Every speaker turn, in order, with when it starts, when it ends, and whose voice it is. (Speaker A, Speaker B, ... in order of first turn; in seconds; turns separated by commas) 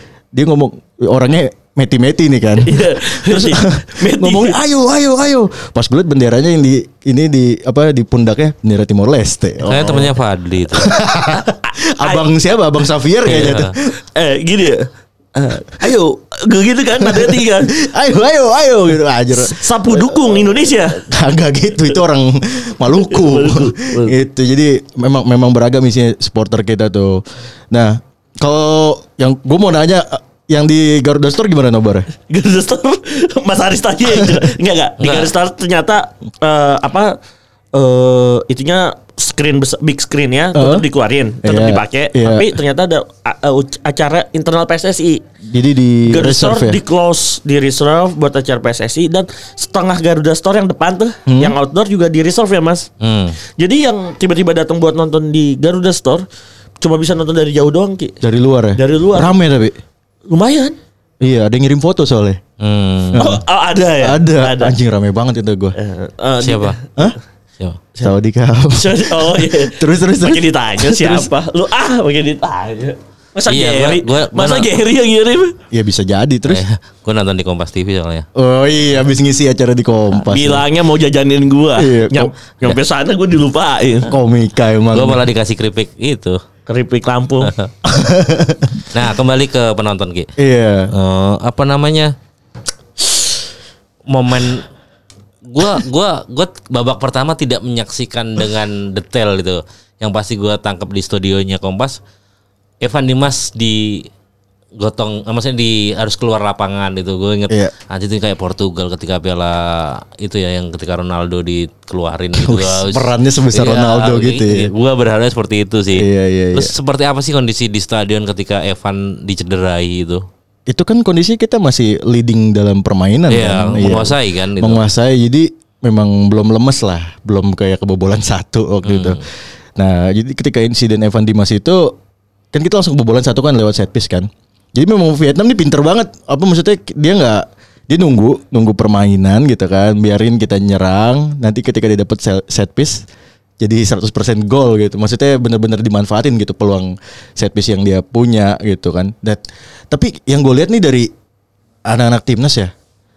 Speaker A: 0.3-10.1, Speaker B: 2.6-4.6, Speaker C: 9.7-10.9, Speaker A: 10.7-13.9, Speaker B: 11.4-12.2, Speaker C: 13.3-13.7, Speaker B: 13.3-13.6, Speaker B: 14.1-17.7, Speaker A: 17.0-32.1, Speaker B: 19.3-21.0, Speaker B: 23.1-24.2, Speaker B: 32.3-37.2, Speaker A: 34.1-34.4, Speaker C: 35.0-35.3, Speaker B: 37.7-45.2, Speaker A: 40.5-40.9, Speaker A: 41.4-42.5, Speaker A: 45.5-46.8, Speaker B: 46.1-52.9, Speaker A: 51.3-51.5, Speaker C: 53.0-53.3, Speaker B: 53.6-56.2, Speaker B: 56.8-58.2, Speaker A: 58.2-59.8, Speaker B: 58.7-59.3, Speaker B: 60.3-60.8, Speaker A: 61.2-62.4, Speaker C: 62.6-63.3, Speaker A: 63.1-63.4, Speaker B: 63.2-64.7, Speaker A: 64.0-65.8, Speaker B: 65.8-66.8, Speaker C: 66.4-66.8, Speaker A: 68.0-71.3, Speaker B: 68.7-75.5, Speaker C: 73.5-74.7, Speaker A: 75.7-76.6, Speaker C: 76.5-78.2, Speaker A: 78.3-80.7, Speaker B: 80.3-84.1, Speaker A: 81.8-82.3, Speaker A: 84.1-85.2, Speaker C: 84.9-86.4, Speaker B: 86.7-87.5, Speaker C: 87.4-87.7, Speaker A: 87.8-88.7, Speaker C: 88.9-90.3, Speaker A: 90.4-90.9, Speaker C: 90.9-92.1, Speaker C: 94.1-94.7, Speaker C: 95.5-102.0, Speaker C: 102.8-104.1, Speaker C: 104.8-120.2, Speaker A: 112.3-114.7, Speaker A: 115.9-116.7, Speaker A: 120.7-129.2, Speaker C: 123.3-124.8, Speaker C: 128.8-129.2, Speaker A: 129.8-132.0, Speaker A: 132.5-143.1, Speaker A: 143.6-151.1, Speaker A: 151.8-152.7